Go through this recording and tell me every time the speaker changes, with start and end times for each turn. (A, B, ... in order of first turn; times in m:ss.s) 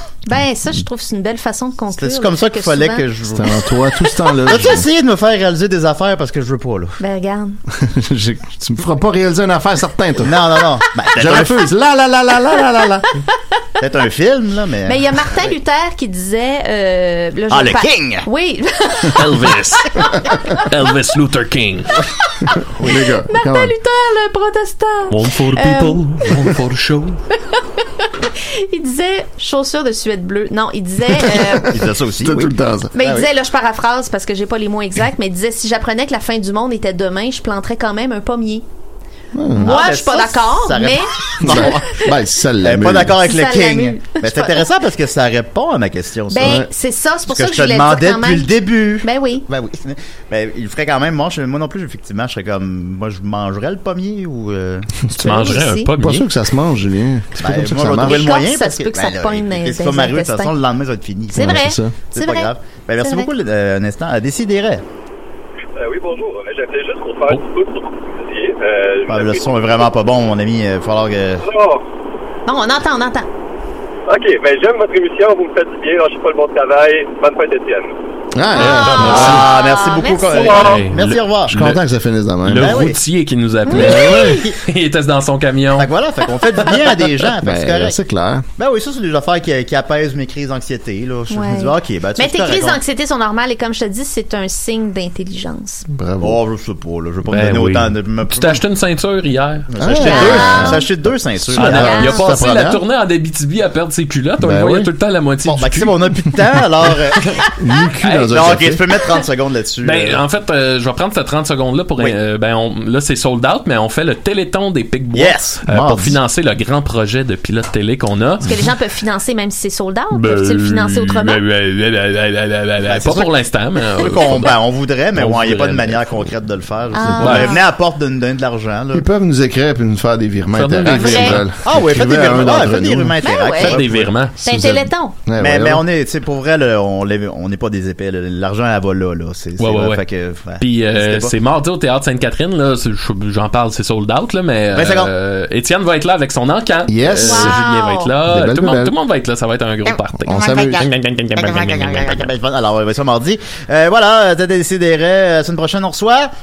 0:00.3-0:03.1 A
0:01.9-0:03.8 B
0:03.3-0:04.9 C
0:04.4-0:07.0 B
0:07.0-0:07.6 A
0:07.7-0:10.6 C
0:10.2-0:11.6 B
0:11.2-0:13.1 C
0:13.8-0:15.5 B
0:14.9-0:19.3 A
0:17.5-0:18.3 B
0:19.1-0:20.0 D
0:19.8-0:20.6 A
0:20.6-0:22.0 D
0:22.4-0:26.4 A
0:22.8-0:23.7 C
0:25.1-0:27.2 D
0:27.4-0:31.8 A
0:31.2-0:31.6 C
0:31.6-0:33.3 B
0:32.2-0:32.9 C
0:32.9-0:38.6 A
0:39.3-0:39.8 C
0:39.6-0:41.8 B
0:39.6-0:41.9 A
0:41.4-0:43.2 C
0:42.6-0:46.7 B
0:43.2-0:44.6 A
0:46.3-0:48.5 A
0:46.4-0:46.7 C
0:47.3-0:54.9 B
0:49.0-0:49.4 A
0:55.1-0:55.9 A
0:55.2-0:56.3 D
0:56.0-0:58.3 C
0:57.4-1:04.8 B
0:58.0-1:00.5 A
1:01.3-1:03.3 A
1:01.3-1:01.9 C
1:05.8-1:09.5 E
1:09.1-1:11.4 B
1:11.4-1:11.8 E
1:12.5-1:13.3 A
1:14.1-1:18.0 E
1:18.3-1:19.5 C
1:18.6-1:19.4 D
1:18.6-1:20.8 A
1:18.7-1:21.7 B
1:20.3-1:21.8 D
1:21.5-1:22.9 C
1:22.4-1:25.9 D
1:22.6-1:23.0 B
1:23.7-1:24.2 A
1:23.8-1:24.4 C
1:23.8-1:24.5 B
1:25.8-1:28.0 B
1:27.4-1:28.4 C
1:28.6-1:32.8 B
1:31.3-1:35.8 A
1:35.9-1:36.4 C
1:36.2-1:38.6 B
1:37.3-1:39.7 D
1:39.7-1:42.4 B
1:39.8-1:42.8 C
1:39.9-1:40.9 A
1:41.6-1:46.0 D
1:41.8-1:42.2 A
1:44.4-1:44.9 C
1:45.5-1:47.4 B
1:47.6-1:48.9 C
1:48.0-1:48.6 D
1:48.3-1:50.2 B
1:49.8-1:58.4 D
1:55.1-1:56.1 B
1:55.7-1:56.0 C
1:58.4-2:01.4 A
2:00.1-2:04.6 D
2:02.8-2:03.3 B
2:03.9-2:09.0 B
2:05.1-2:06.3 D
2:07.0-2:07.6 A
2:07.2-2:07.5 D
2:08.9-2:13.2 C
2:10.5-2:11.5 D
2:10.9-2:11.4 A
2:11.6-2:14.1 B
2:13.2-2:13.8 A
2:13.5-2:14.7 D
2:14.4-2:15.2 A
2:14.5-2:15.8 C
2:15.4-2:21.3 B
2:19.6-2:20.0 D
2:20.6-2:32.3 D
2:24.7-2:25.1 B
2:26.9-2:27.7 C
2:27.2-2:28.1 A
2:28.2-2:29.0 C
2:30.1-2:30.9 C
2:31.4-2:36.3 B